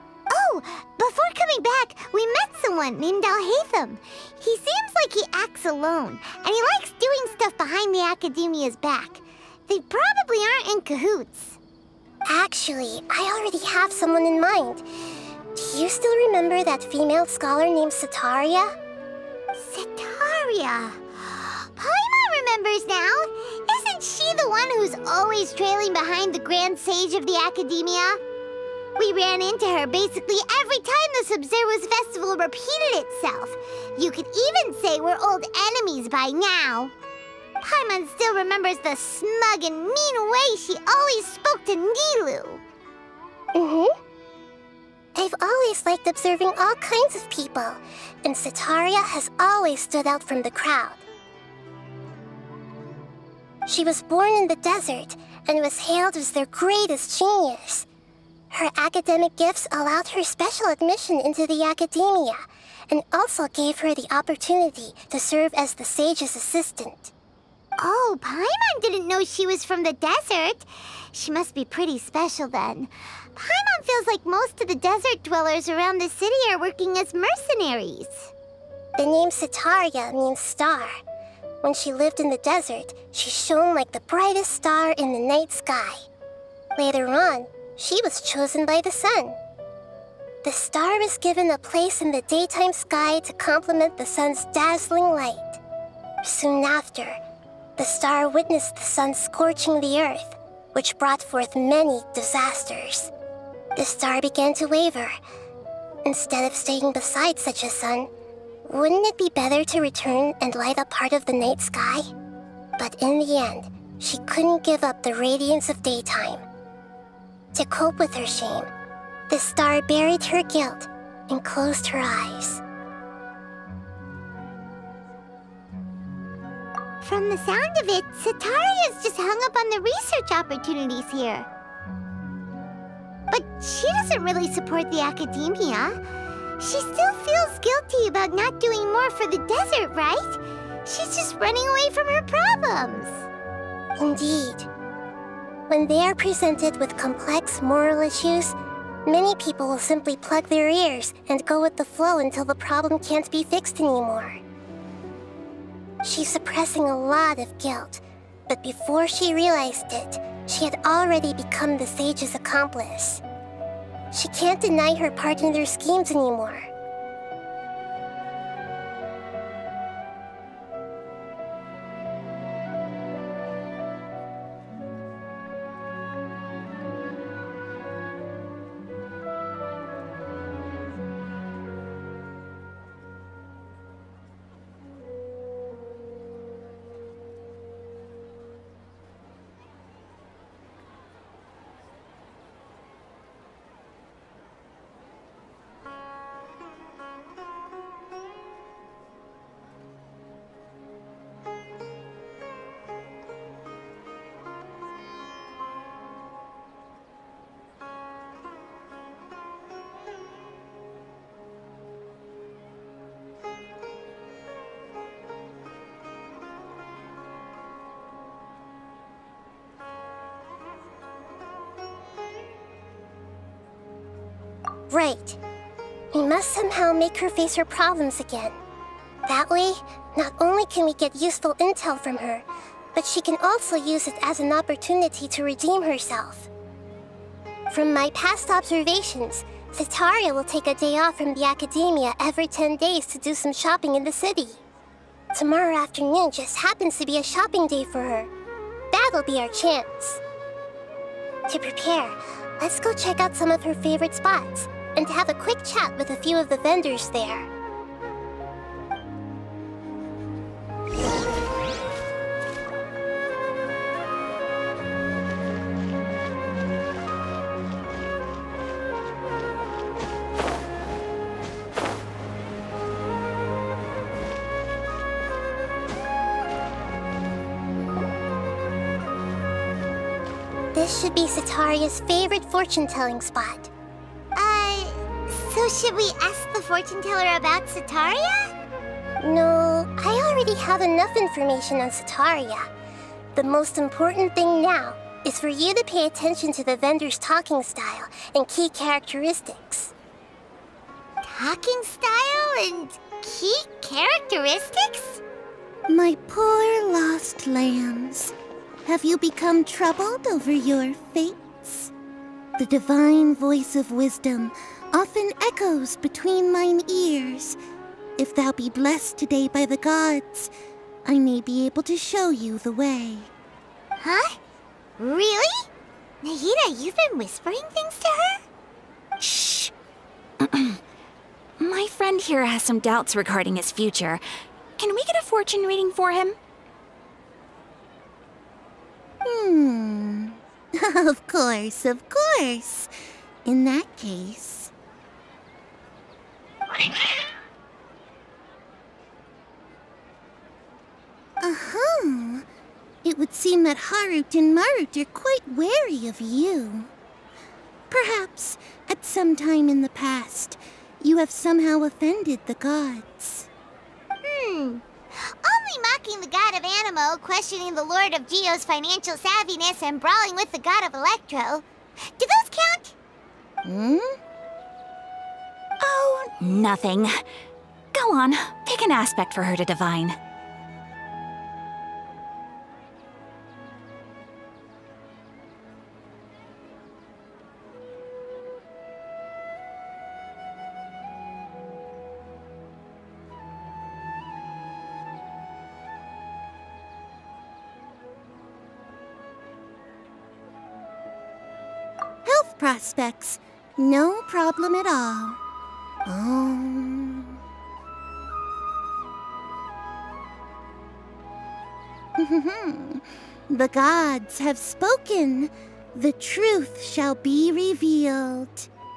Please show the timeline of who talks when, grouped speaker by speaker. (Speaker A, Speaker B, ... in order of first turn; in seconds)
Speaker A: 0.3-11.6, 19.5-28.2, 29.0-36.9, 37.6-42.6, 67.8-78.3, 127.0-131.5, 133.3-136.0, 136.6-143.3, 284.3-288.5, 301.2-305.2, 324.0-324.4, 325.0-325.7, 326.2-328.4, 364.2-371.6, 372.1-372.9
Speaker B: 12.2-14.8, 15.5-18.7, 43.5-43.9, 45.1-51.0, 53.6-57.9, 58.5-67.1, 79.0-81.0, 81.6-86.0, 86.8-89.4, 90.4-95.6, 96.2-97.2, 97.8-103.1, 103.8-105.2, 106.0-108.1, 108.7-112.1, 112.8-116.4, 117.5-118.7, 119.3-122.6, 144.0-144.7, 145.7-154.4, 156.0-163.2, 164.1-166.7, 224.9-225.4, 226.1-228.6, 229.2-236.5, 237.7-244.6, 245.3-248.3, 248.9-250.2, 251.5-257.5, 280.7-283.7, 289.2-292.7, 293.3-299.9
Speaker C: 305.9-308.3, 308.9-311.9, 312.6-317.6, 318.2-320.5, 321.0-323.3, 339.2-342.9, 343.4-344.7, 351.4-352.4, 353.0-356.9, 357.9-363.5, 373.6-374.1, 402.2-405.4, 406.1-407.4, 412.2-418.7
Speaker D: 329.2-329.7, 330.4-330.8, 331.6-334.2, 334.8-336.4, 375.8-377.2, 377.9-380.2